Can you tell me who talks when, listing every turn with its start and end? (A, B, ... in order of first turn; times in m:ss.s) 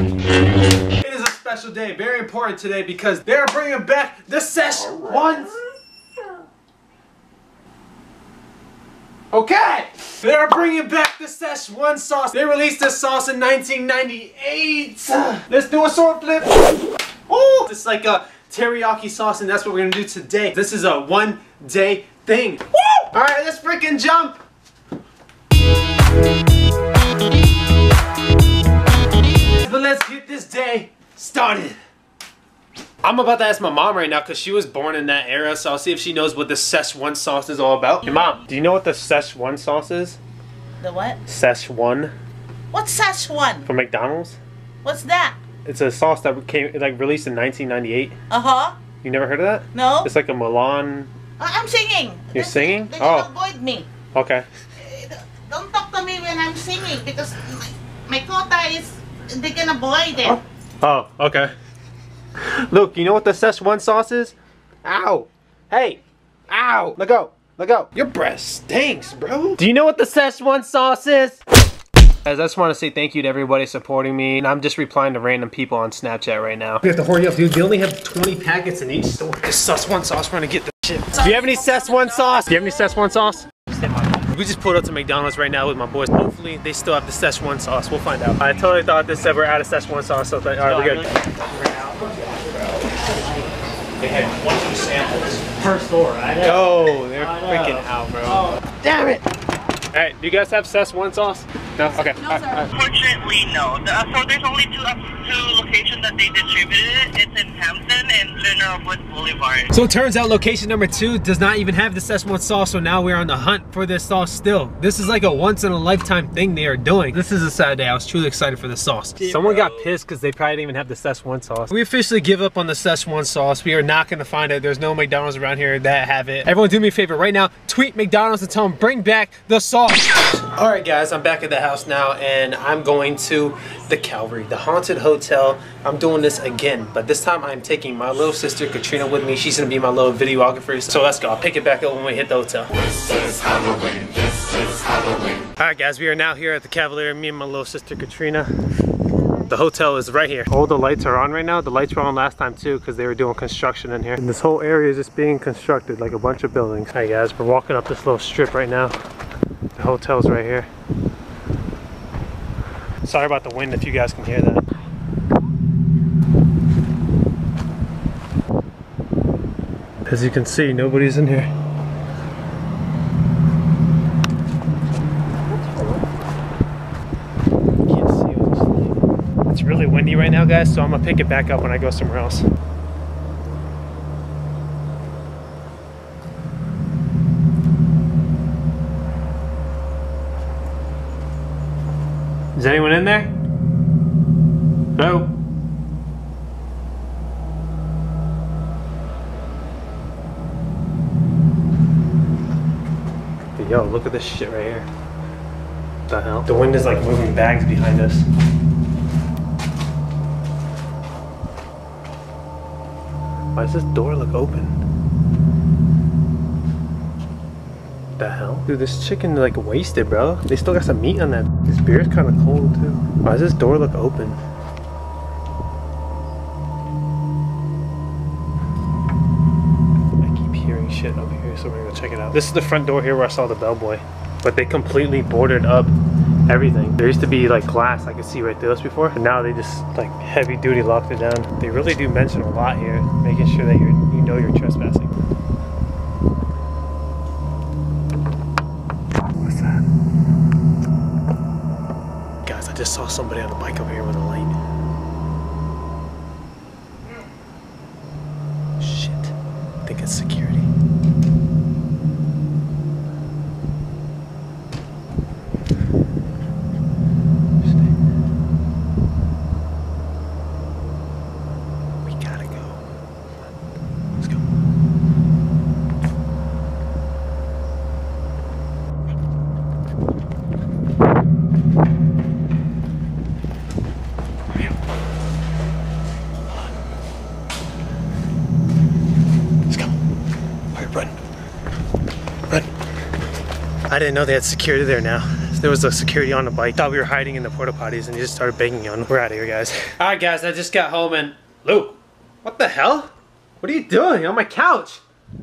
0:01.0-0:05.6 A
0:09.3-0:16.6 A
0:17.3-0:24.4 A
0:29.5-0:31.8 A
0:33.0-0:40.2 A
0:40.8-0:41.2 B
0:41.3-0:42.1 A
0:42.7-0:43.7 B
0:43.6-0:44.4 A
0:44.8-0:45.4 B
0:45.6-0:48.1 A
0:48.3-0:48.7 B
0:49.0-0:51.1 A
0:49.7-0:50.1 B
0:51.4-0:53.9 B
0:52.3-0:53.3 A
0:54.1-0:54.5 A
0:54.8-1:00.4 B
1:00.2-1:01.5 A
1:02.4-1:11.4 A
1:12.2-1:23.5 A
1:24.1-1:31.1 A
1:30.6-1:32.7 C
1:34.0-1:36.6 C
1:36.4-1:39.2 A
1:37.2-1:38.6 C
1:39.9-1:42.7 A
1:42.7-1:49.7 D
1:49.7-2:22.7 A
2:25.5-2:28.5 A
2:29.5-2:38.9 A
2:39.8-2:40.7 A
2:43.0-2:44.6 A
2:50.0-2:51.5 A
2:57.8-3:02.4 A
3:12.6-3:13.3 A
3:15.0-3:15.3 A
3:23.6-3:24.9 A
3:26.1-3:28.2 A
3:33.5-3:34.7 A
3:38.2-3:44.4 A
3:50.2-3:55.9 A
3:56.5-4:05.1 A
4:09.3-4:09.8 A
4:12.4-4:14.5 A
4:18.8-4:19.3 A
4:19.8-4:20.7 A
4:27.6-4:27.9 A
4:32.0-4:32.8 A
4:34.2-4:34.4 A
4:50.7-4:51.1 A
4:53.9-5:05.0 A